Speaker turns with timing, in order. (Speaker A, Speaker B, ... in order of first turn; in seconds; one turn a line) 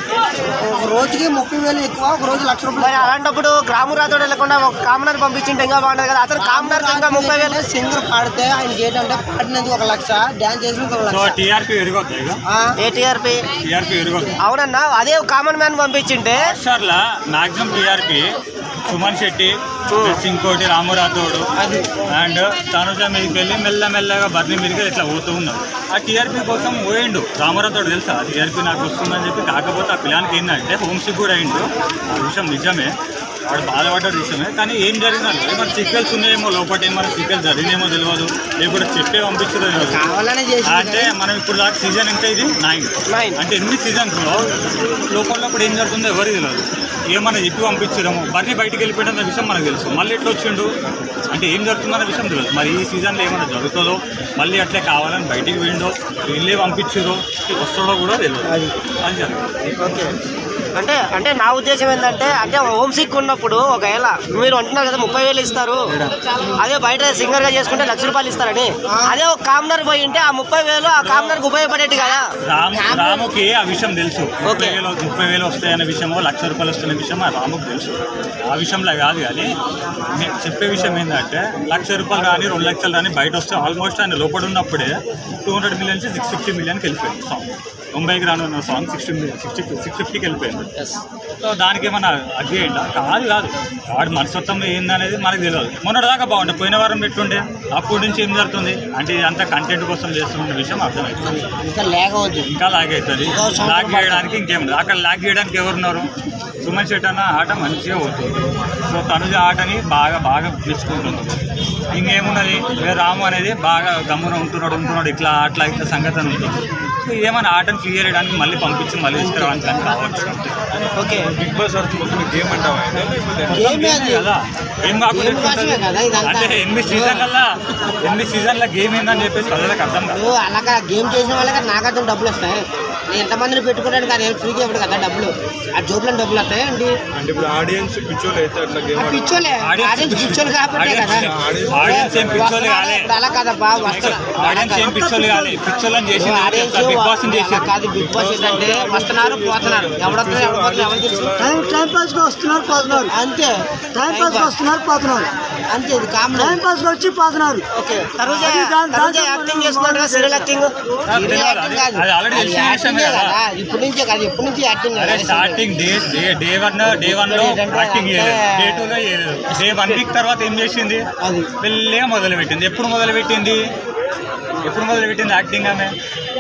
Speaker A: 0.5-3.1
Speaker B: 2.8-7.6
Speaker A: 6.4-11.4
Speaker C: 11.1-12.4
Speaker A: 12.5-12.8
Speaker B: 12.8-13.5
Speaker C: 13.6-14.4
Speaker B: 14.4-16.4
Speaker C: 16.3-18.3
Speaker C: 18.9-32.9
Speaker B: 19.9-20.2
Speaker A: 21.6-21.9
Speaker C: 33.5-40.1
Speaker A: 39.8-41.1
Speaker C: 40.6-50.7
Speaker B: 43.1-43.4
Speaker C: 51.3-59.5
Speaker B: 60.8-65.9
Speaker B: 66.5-72.2
Speaker A: 68.9-69.2
Speaker C: 70.9-71.5
Speaker C: 72.5-90.9
Speaker A: 72.8-73.2
Speaker B: 74.4-74.8
Speaker C: 91.4-101.4
Speaker A: 101.2-102.5
Speaker C: 102.5-106.1
Speaker A: 103.3-104.3
Speaker C: 106.6-111.4
Speaker C: 111.9-120.6
Speaker A: 119.2-119.8
Speaker D: 120.8-123.7
Speaker A: 121.0-121.3
Speaker C: 123.5-130.2
Speaker A: 123.5-124.3
Speaker A: 125.1-127.2
Speaker A: 130.1-137.0
Speaker D: 137.1-139.5
Speaker A: 138.9-144.9
Speaker C: 139.6-143.1
Speaker D: 141.0-142.6
Speaker C: 143.8-147.7
Speaker E: 144.7-145.6
Speaker A: 146.2-151.3
Speaker D: 147.9-152.0
Speaker E: 151.4-153.1
Speaker A: 152.8-154.5
Speaker E: 153.9-155.3
Speaker A: 155.7-156.6
Speaker E: 156.3-157.6
Speaker A: 157.8-158.1
Speaker B: 158.1-160.7
Speaker E: 158.3-160.5
Speaker C: 161.1-163.4
Speaker A: 161.1-165.6
Speaker C: 164.9-171.1
Speaker A: 166.9-168.9
Speaker A: 171.2-171.5
Speaker C: 171.6-173.6
Speaker C: 174.6-175.9